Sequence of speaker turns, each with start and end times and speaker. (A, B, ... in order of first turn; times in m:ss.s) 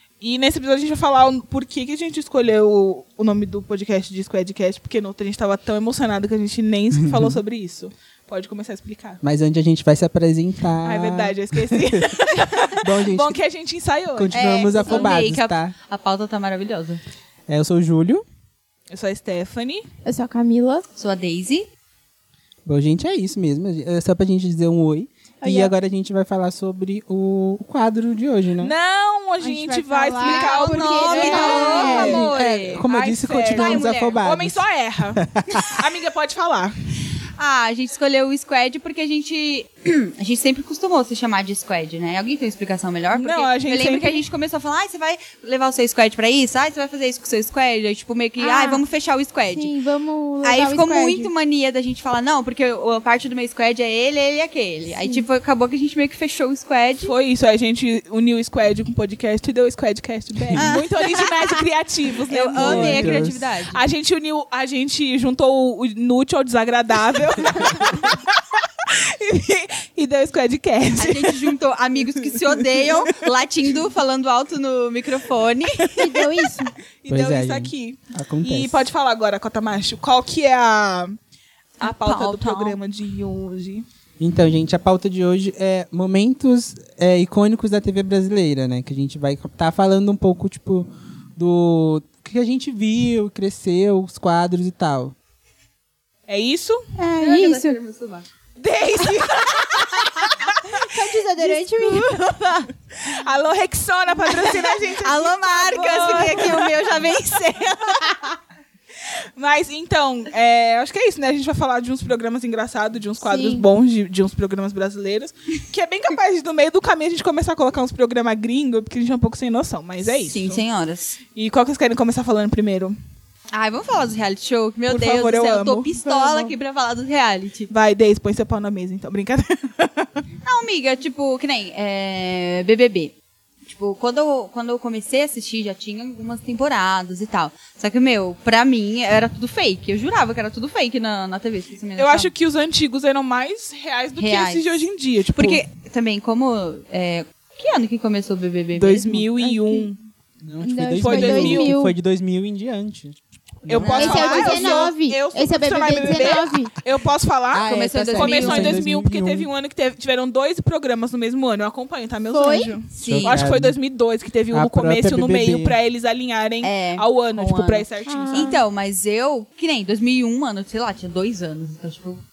0:00.2-0:09.2 A
0:07.0-0:07.4 B
0:09.2-0:13.4 B
0:10.8-0:14.4 A
0:14.2-0:15.7 B
0:14.3-0:17.0 C
0:14.9-0:15.1 A
0:17.5-0:18.2 B
0:18.9-0:19.8 A
0:20.0-0:20.8 D
0:21.0-0:21.7 C
0:22.7-0:28.7 B
0:25.4-0:25.7 D
0:28.6-0:36.7 A
0:29.4-0:32.3 D
0:30.2-0:32.9 C
0:31.2-0:34.6 B
0:33.5-0:34.2 C
0:35.2-0:35.8 B
0:37.4-0:49.7 C
0:43.1-0:44.2 A
0:48.4-0:48.8 D
0:49.5-0:51.3 D
0:50.4-0:57.1 C
0:57.0-1:11.5 A
1:00.4-1:00.8 B
1:00.6-1:01.6 C
1:02.3-1:03.8 C
1:02.6-1:03.4 B
1:10.9-1:15.9 C
1:12.3-1:13.2 A
1:16.0-1:16.8 D
1:17.0-1:21.2 A
1:17.1-1:18.9 B
1:21.8-1:23.8 A
1:21.8-1:22.8 C
1:24.2-1:35.2 B
1:36.3-1:36.8 A
1:37.0-1:38.3 C
1:37.2-1:37.8 D
1:38.6-1:40.6 A
1:39.7-1:42.7 C
1:41.4-1:42.0 D
1:41.8-1:42.1 A
1:43.0-1:47.2 A
1:44.2-1:48.3 C
1:49.4-2:00.6 A
1:53.2-1:53.7 D
2:00.1-2:01.2 C
2:01.4-2:03.0 A
2:03.5-2:07.7 C
2:04.9-2:06.5 A
2:07.7-2:10.1 A
2:10.4-2:13.1 C
2:13.6-2:22.3 C
2:22.0-2:25.6 A
2:24.2-2:24.8 C
2:25.3-2:29.2 C
2:28.8-2:30.0 A
2:29.1-2:29.9 D
2:30.4-2:34.3 B
2:30.6-2:32.0 D
2:31.0-2:31.8 A
2:33.7-2:48.6 A
2:33.7-2:34.9 C
2:34.0-2:36.7 D
2:37.5-2:39.5 B
2:37.6-2:38.8 C
2:42.3-2:42.7 D
2:43.0-2:43.4 C
2:43.0-2:43.8 B
2:44.5-2:45.8 B
2:46.6-2:52.2 C
2:48.1-2:48.6 D